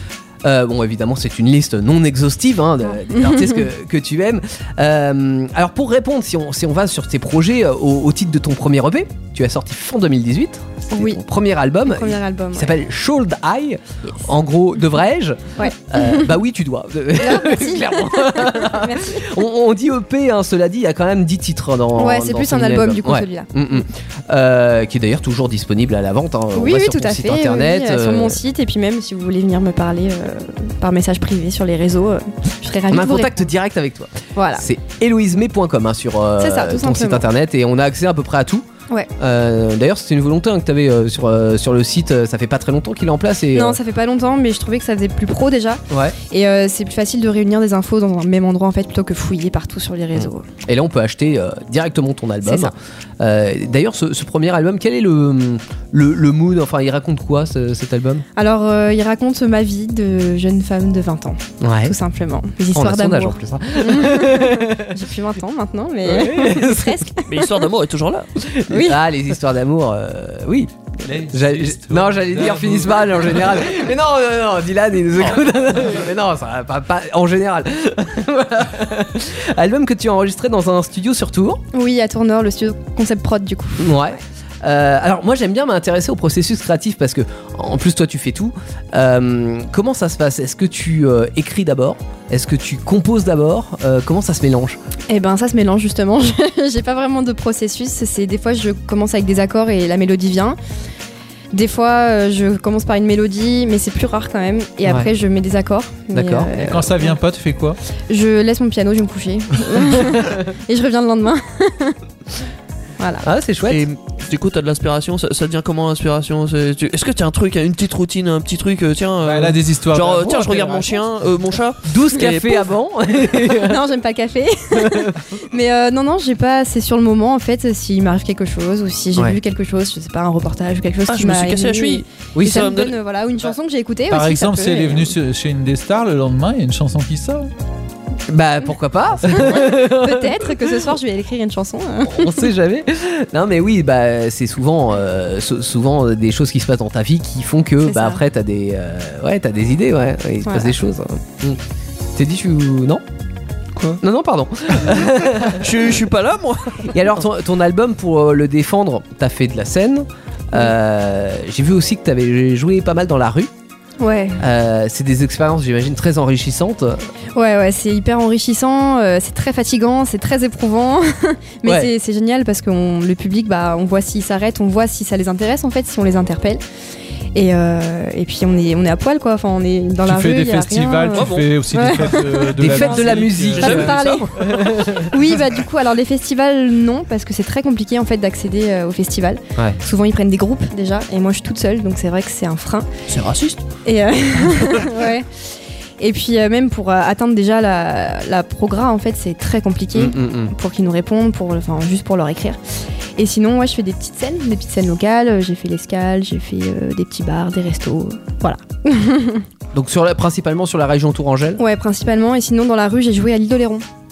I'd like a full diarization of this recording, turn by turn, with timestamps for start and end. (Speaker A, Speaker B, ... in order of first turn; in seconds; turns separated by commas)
Speaker A: 0.4-28.4, Speaker B: 2.9-3.6, Speaker B: 10.9-11.2, Speaker B: 11.8-12.7, Speaker B: 15.6-16.3, Speaker B: 17.2-19.4, Speaker B: 21.9-23.5, Speaker B: 26.5-33.5, Speaker A: 32.9-38.6, Speaker B: 34.3-34.6, Speaker B: 36.4-37.3, Speaker A: 39.2-43.8, Speaker B: 43.5-50.4, Speaker A: 45.9-46.1, Speaker A: 50.1-58.2, Speaker B: 52.4-52.7, Speaker B: 58.4-67.5, Speaker A: 61.6-62.0, Speaker A: 62.7-64.9, Speaker A: 66.0-67.0, Speaker C: 67.3-68.3, Speaker A: 68.4-81.6, Speaker B: 68.7-69.0, Speaker D: 71.0-73.6, Speaker B: 81.7-84.0, Speaker A: 83.8-94.8, Speaker B: 95.1-100.6, Speaker B: 101.5-107.2, Speaker A: 106.1-106.5, Speaker D: 106.5-107.8, Speaker B: 108.1-112.0, Speaker A: 110.0-110.3, Speaker B: 113.0-113.2, Speaker A: 113.2-113.8, Speaker C: 113.6-122.7, Speaker D: 119.2-121.0, Speaker A: 121.8-123.8, Speaker B: 123.4-135.2, Speaker A: 124.8-125.3, Speaker C: 131.1-132.9, Speaker A: 132.3-132.7, Speaker D: 134.1-137.5, Speaker A: 138.3-140.5, Speaker B: 139.3-142.5, Speaker A: 142.0-151.6, Speaker B: 147.8-148.2, Speaker B: 150.4-150.7, Speaker A: 152.2-153.0, Speaker A: 154.0-155.9, Speaker C: 155.5-156.9, Speaker A: 156.9-163.5, Speaker B: 164.0-164.4, Speaker A: 164.4-167.0, Speaker B: 167.3-176.6, Speaker A: 171.6-171.9, Speaker B: 177.3-192.9, Speaker D: 180.0-183.9, Speaker C: 181.1-181.5, Speaker A: 182.6-185.2, Speaker C: 183.5-184.6, Speaker C: 193.1-193.6, Speaker B: 193.8-195.3, Speaker B: 196.0-202.6, Speaker A: 199.9-200.5, Speaker B: 203.2-209.4, Speaker A: 209.7-211.6, Speaker B: 211.6-213.8